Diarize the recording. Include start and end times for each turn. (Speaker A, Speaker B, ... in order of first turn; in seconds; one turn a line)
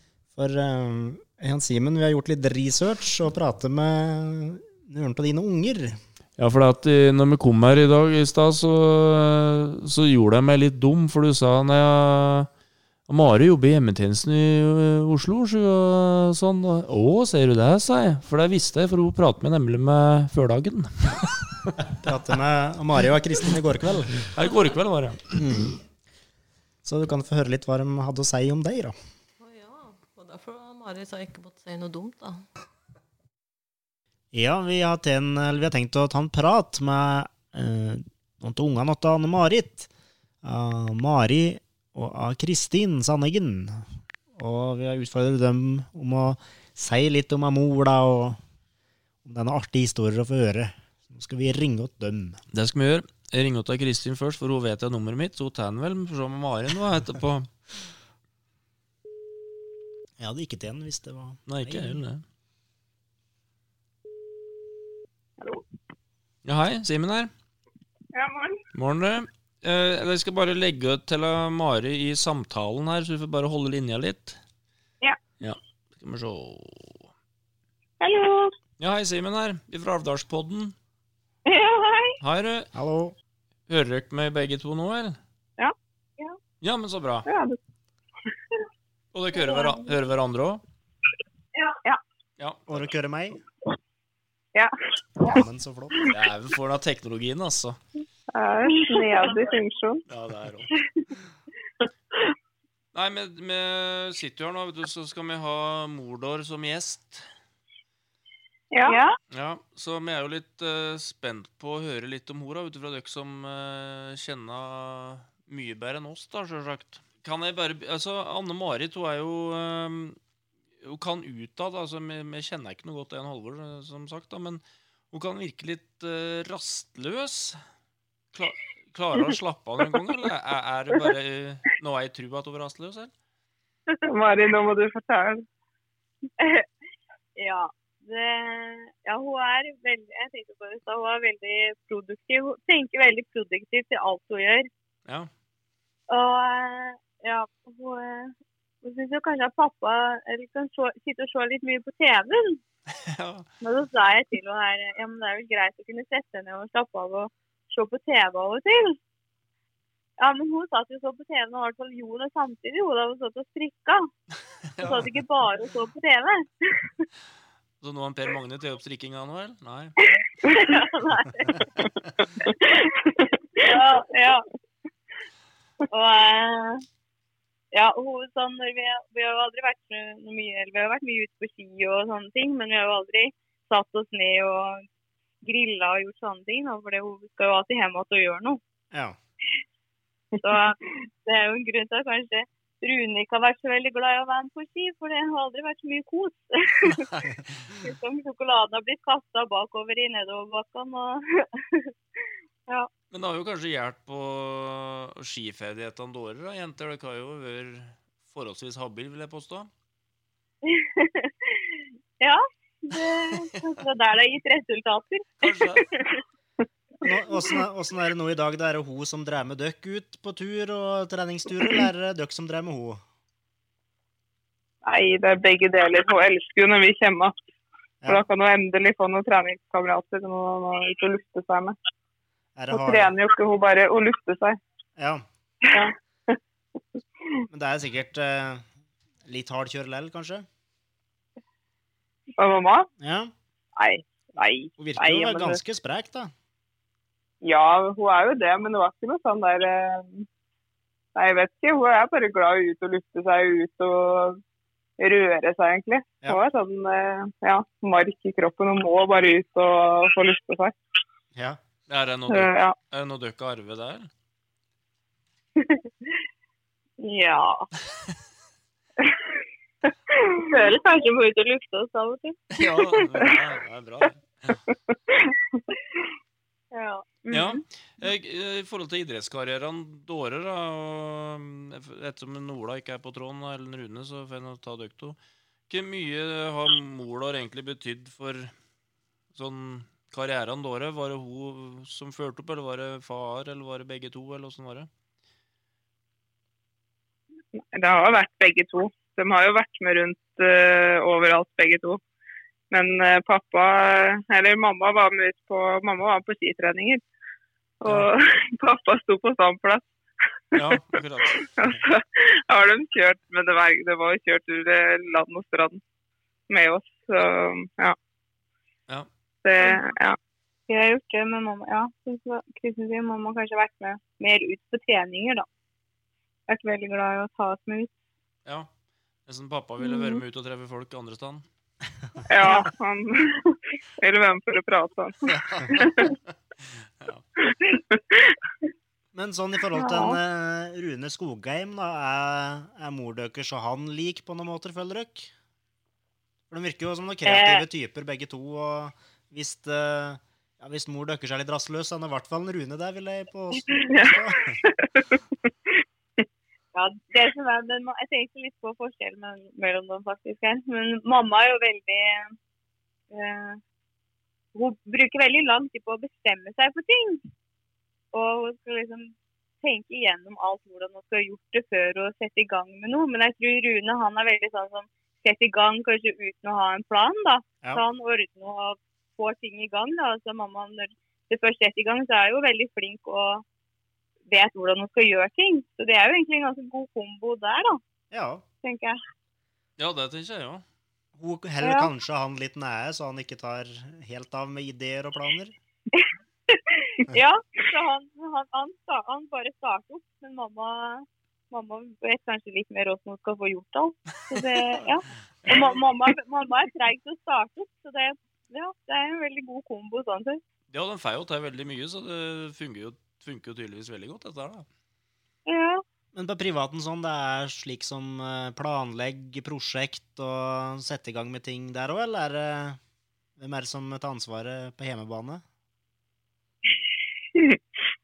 Speaker A: 0.3-6.0
Speaker B: 6.4-12.5
Speaker B: 13.1-21.8
Speaker A: 22.0-24.3
Speaker B: 24.3-25.4
Speaker A: 25.4-25.8
Speaker A: 26.8-28.9
Speaker C: 29.4-32.4
Speaker A: 34.3-39.9
Speaker A: 40.4-48.4
Speaker A: 49.2-52.4
Speaker B: 52.5-57.5
Speaker A: 60.2-62.0
Speaker B: 61.5-62.2
Speaker B: 66.5-67.3
Speaker D: 68.1-68.6
Speaker B: 68.8-74.4
Speaker B: 75.4-77.1
Speaker D: 78.0-78.5
Speaker B: 78.8-80.8
Speaker E: 81.5-82.2
Speaker B: 82.2-82.7
Speaker A: 82.7-83.1
Speaker B: 83.7-85.2
Speaker B: 86.6-87.3
Speaker D: 87.2-87.6
Speaker B: 89.1-90.6
Speaker E: 89.4-89.7
Speaker B: 92.4-92.9
Speaker A: 92.7-93.4
Speaker D: 94.5-95.4
Speaker A: 95.2-96.0
Speaker B: 96.1-97.8
Speaker D: 98.3-100.0
Speaker E: 98.7-99.5
Speaker B: 100.1-100.7
Speaker B: 102.9-107.2
Speaker D: 108.7-109.0
Speaker B: 109.3-120.2
Speaker B: 120.8-127.6
Speaker B: 128.3-133.1
Speaker D: 134.1-135.4
Speaker E: 136.4-136.7
Speaker E: 137.3-144.7
Speaker E: 146.1-152.6
Speaker B: 153.0-153.4
Speaker E: 153.6-159.0
Speaker E: 160.2-164.1
Speaker B: 164.7-165.1
Speaker E: 164.8-167.1
Speaker B: 167.8-169.9
Speaker E: 170.4-171.7
Speaker D: 172.4-173.6
Speaker E: 173.6-174.4
Speaker E: 175.9-176.8
Speaker E: 177.7-184.8
Speaker E: 185.4-188.6
Speaker E: 190.4-201.9
Speaker B: 203.1-209.7
Speaker E: 210.6-216.2
Speaker B: 215.4-215.9
Speaker A: 217.0-223.0
Speaker D: 224.8-227.3
Speaker D: 228.1-231.8
Speaker A: 232.6-233.1
Speaker D: 232.7-234.6
Speaker A: 235.0-235.2
Speaker D: 235.6-236.3
Speaker A: 237.5-238.7
Speaker A: 239.2-240.4
Speaker D: 242.4-242.9
Speaker A: 243.0-243.3
Speaker D: 243.8-245.6
Speaker A: 244.8-246.3
Speaker D: 247.4-250.2
Speaker D: 251.2-254.4
Speaker D: 255.0-260.8
Speaker B: 261.9-264.1
Speaker D: 262.3-262.8
Speaker E: 267.0-267.7
Speaker E: 270.4-273.3
Speaker B: 272.6-274.6
Speaker E: 276.7-277.6
Speaker B: 277.3-285.2
Speaker B: 285.7-288.5
Speaker B: 289.3-294.9
Speaker D: 297.6-302.0
Speaker D: 302.7-307.0
Speaker D: 307.8-309.8
Speaker B: 310.5-311.5
Speaker D: 310.5-310.8
Speaker D: 311.4-315.8
Speaker D: 316.5-317.9
Speaker D: 319.4-320.2
Speaker E: 320.7-325.5
Speaker E: 326.5-327.9
Speaker B: 329.2-331.4
Speaker D: 332.3-333.5
Speaker D: 334.0-335.2
Speaker B: 335.3-336.2
Speaker D: 335.8-336.1
Speaker D: 337.5-338.2
Speaker A: 339.1-345.3
Speaker A: 346.5-354.6
Speaker E: 347.2-347.6
Speaker D: 353.9-355.2
Speaker E: 356.7-362.3
Speaker E: 363.1-363.6
Speaker E: 364.5-367.2
Speaker E: 368.1-383.4
Speaker E: 384.3-387.8
Speaker A: 388.1-388.4
Speaker E: 388.6-389.0
Speaker B: 389.8-390.6
Speaker A: 391.2-395.5
Speaker E: 391.6-391.9
Speaker E: 396.0-410.4
Speaker B: 404.3-404.9
Speaker B: 405.4-405.8
Speaker B: 410.7-414.6
Speaker E: 415.4-415.8
Speaker A: 416.1-422.8
Speaker A: 423.4-425.4